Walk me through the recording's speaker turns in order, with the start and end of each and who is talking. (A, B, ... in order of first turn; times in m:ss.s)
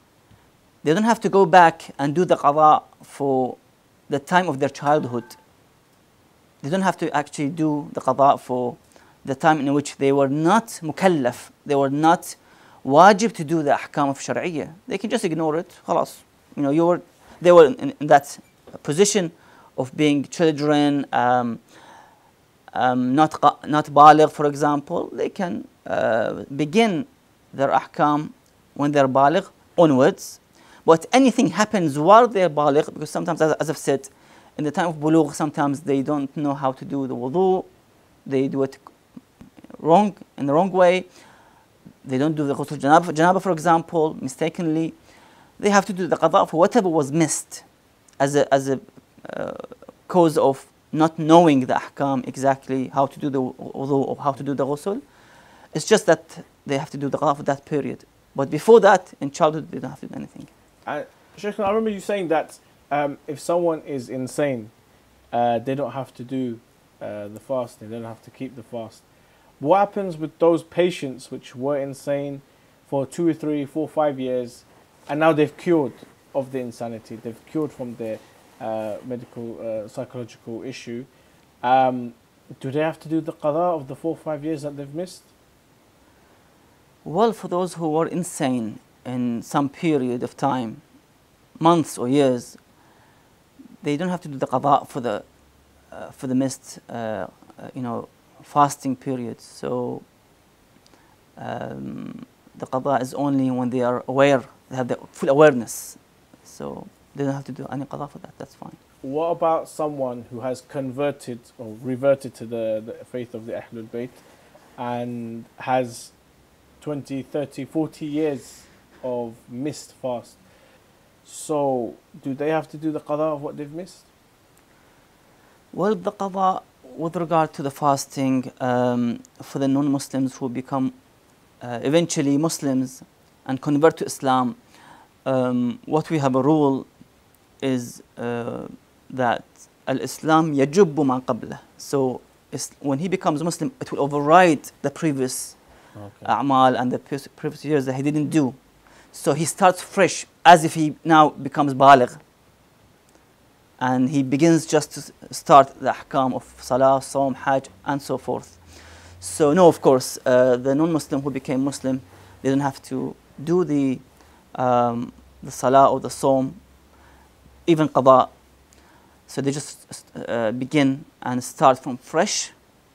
0:00.8-0:05.4 A
0:06.6-0:21.6 A
0:22.7-0:37.7 A
0:38.2-0:38.9 A
0:39.8-0:41.1 A
0:42.0-0:45.0 A
0:45.6-0:47.7 A
0:48.2-0:55.0 A
0:55.7-1:00.5 A
1:00.8-1:04.7 B
1:05.3-1:09.0 B
1:09.6-1:21.1 B
1:21.6-1:25.3 B
1:27.0-1:30.8 A
1:31.6-1:32.6 A
1:33.8-1:35.3 A
1:35.9-1:40.1 A
1:41.4-1:48.8 A
1:49.0-1:54.2 B
1:54.8-1:56.2 B
1:56.8-2:00.4 B
2:01.2-2:04.1 B
2:05.7-2:11.0 A
2:11.6-2:14.6 A
2:15.2-2:16.9 A
2:17.6-2:25.6 A
2:26.0-2:26.3 B
2:26.2-2:28.6 A
2:29.1-2:32.2 A
2:33.8-2:46.6 A
2:47.7-2:48.3 A
2:49.3-2:52.6 A